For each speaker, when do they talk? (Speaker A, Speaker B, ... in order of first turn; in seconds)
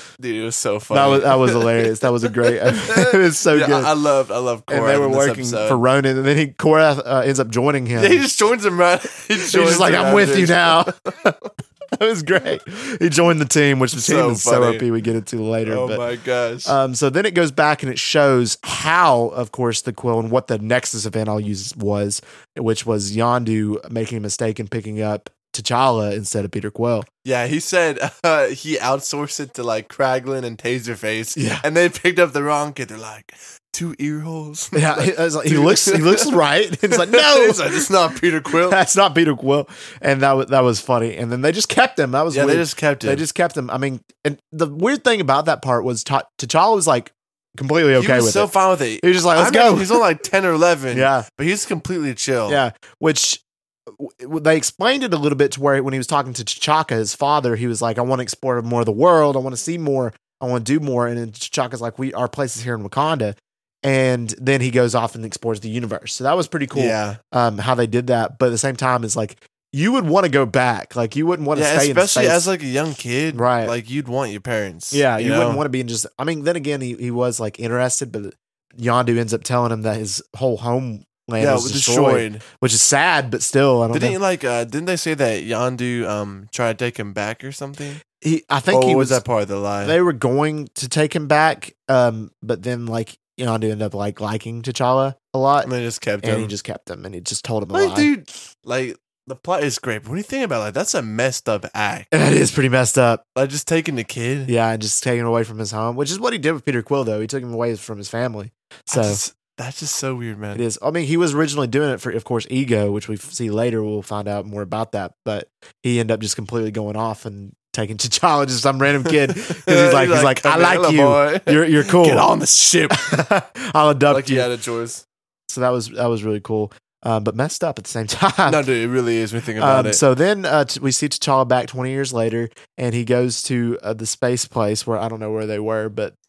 Speaker A: 0.2-5.8, 8.0-10.9, 13.9-14.9, 15.7-16.8, 27.2-38.8, 42.3-43.3, 48.0-52.6, 66.7-67.2, 71.5-75.6, 81.4-82.4, 83.9-88.0, 88.7-90.0, 95.6-96.5, 97.7-102.1, 103.3-104.5, 108.9-110.7, 119.1-123.2, 124.1-125.0, 128.5-130.0
Speaker B: 0.9-3.9, 4.7-8.3, 9.4-11.3, 12.0-16.0, 16.6-27.1, 31.4-31.6, 34.7-37.9, 38.5-50.0, 50.9-51.3, 52.5-53.4, 54.0-72.5, 73.3-73.7, 74.9-84.2, 88.1-89.2, 89.8-98.1, 102.1-103.2, 104.5-109.2, 110.5-122.3, 122.9-124.5, 125.5-128.7, 129.6-136.1